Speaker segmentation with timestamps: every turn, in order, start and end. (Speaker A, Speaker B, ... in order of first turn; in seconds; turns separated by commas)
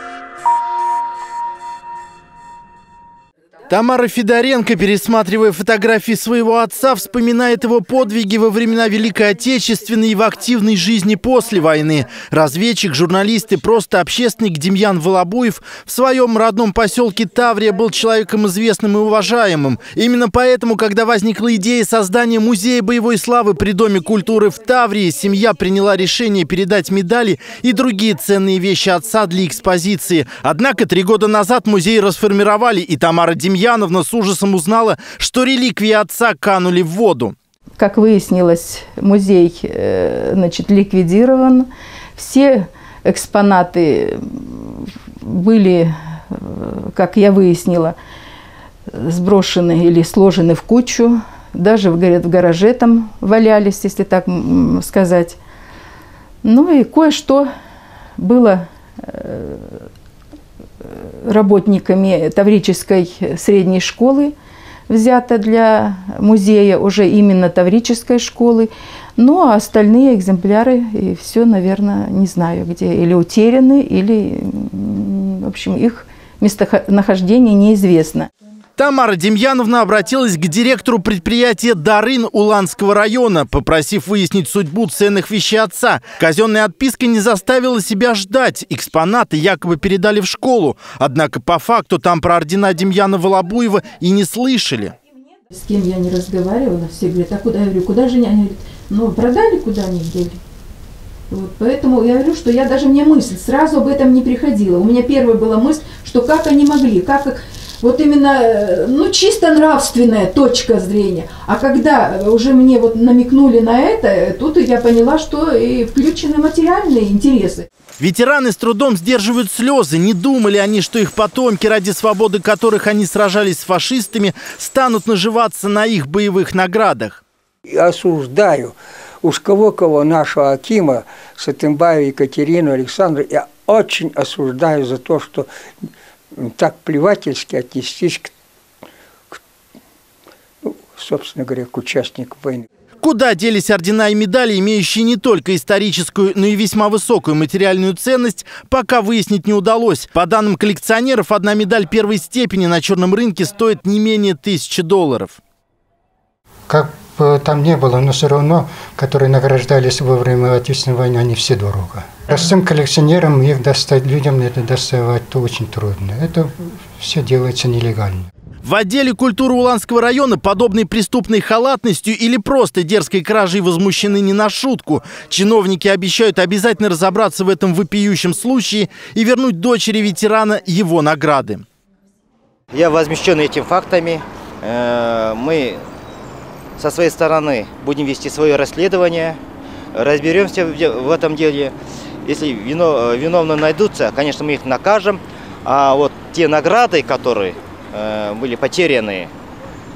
Speaker A: 3.7-37.4, Speaker B: 37.8-48.0, Speaker B: 48.9-55.4, Speaker B: 56.4-57.5, Speaker B: 58.2-59.9, Speaker B: 60.8-64.3, Speaker B: 64.9-78.3, Speaker A: 78.8-95.0, Speaker B: 95.5-100.4, Speaker B: 101.3-117.7, Speaker A: 118.0-127.2, Speaker C: 127.7-138.3, Speaker C: 140.6-142.7, Speaker A: 143.0-155.4, Speaker D: 156.7-168.3, Speaker A: 168.6-181.6, Speaker E: 182.7-185.8, Speaker E: 186.8-189.4, Speaker E: 189.9-199.3